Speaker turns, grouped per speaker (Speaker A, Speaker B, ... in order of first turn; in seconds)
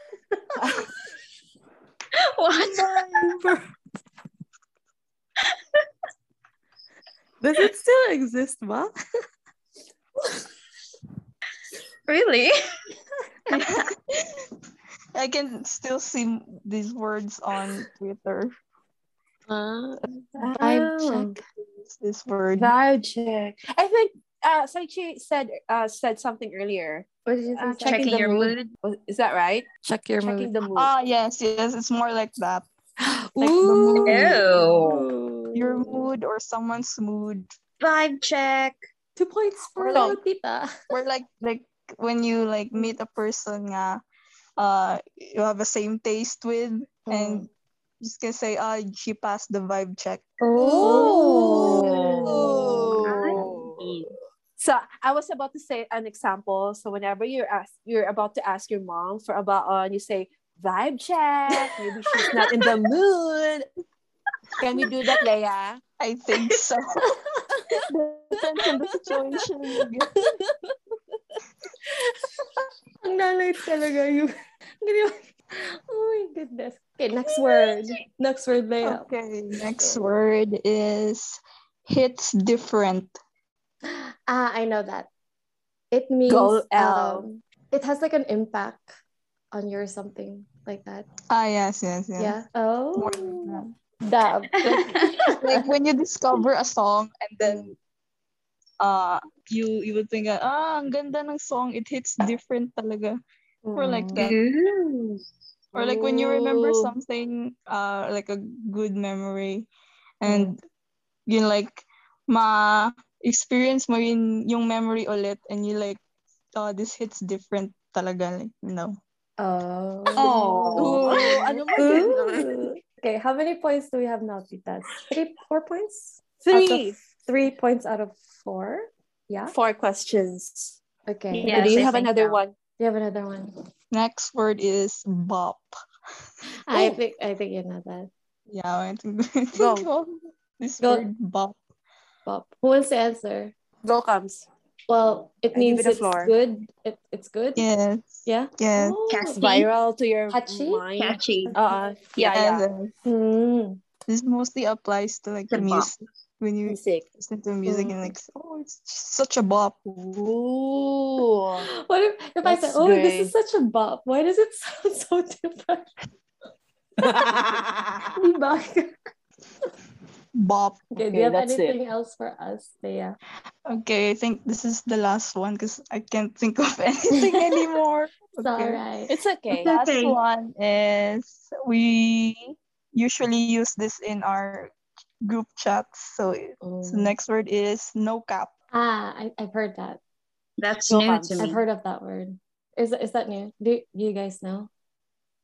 Speaker A: 0.6-0.9, 20.4-21.3, 22.6-29.7, 30.2-30.9, 39.9-40.2, 50.7-53.8, 54.6-63.6, 64.6-65.8, 86.3-87.3, 105.7-106.9, 120.2-122.7, 126.4-127.0, 129.5-130.8, 131.4-132.5, 136.7-137.0, 139.6-139.9, 143.8-144.5, 145.5-146.3, 149.3-152.6, 156.7-157.0, 160.0-161.7, 162.4-163.3, 167.0-168.1, 171.0-171.8, 179.1-179.7, 190.9-191.6
Speaker B: 2.4-3.1, 12.1-12.5, 27.8-28.7, 34.0-35.0, 37.8-38.8, 53.0-54.1, 94.6-95.2, 104.2-105.2, 120.2-121.2, 131.3-132.4, 149.1-149.7, 151.0-151.5, 155.5-155.9, 179.5-180.2, 190.6-191.6
Speaker C: 2.8-3.7, 7.4-8.9, 19.5-21.4, 27.2-28.1, 29.8-30.6, 33.0-36.0, 39.1-40.7, 47.1-47.5, 50.4-53.5, 67.0-67.7, 73.0-79.1, 79.8-80.0, 83.8-85.1, 85.9-88.9, 89.5-91.0, 92.2-95.3, 103.6-104.2, 110.2-110.5, 119.4-120.9, 121.8-129.5, 131.1-132.0, 132.8-133.5, 136.7-138.1, 142.2-143.5, 144.9-147.7, 148.2-149.4, 150.3-150.8, 151.5-151.7, 153.0-153.8, 157.7-158.1, 161.6-165.9, 168.1-168.9, 170.9-173.2, 178.4-179.1, 186.6-187.1, 188.7-190.0, 191.4-194.7
Speaker D: 13.5-14.3, 15.1-18.5, 21.8-22.7, 30.7-32.6, 33.4-34.4, 35.5-37.5, 40.9-44.0, 44.6-47.5, 48.0-51.1, 66.0-67.0, 67.9-70.1, 78.8-83.2, 91.3-92.4, 93.0-93.7, 95.4-97.8, 98.8-103.2, 103.8-104.3, 105.7-109.7, 110.2-110.6, 111.3-116.0, 116.5-119.0, 120.2-121.9, 133.9-135.7, 138.5-141.6, 147.6-149.0, 152.3-152.9, 154.1-159.9, 170.3-170.8, 173.7-178.8, 179.6-184.7, 185.2-188.5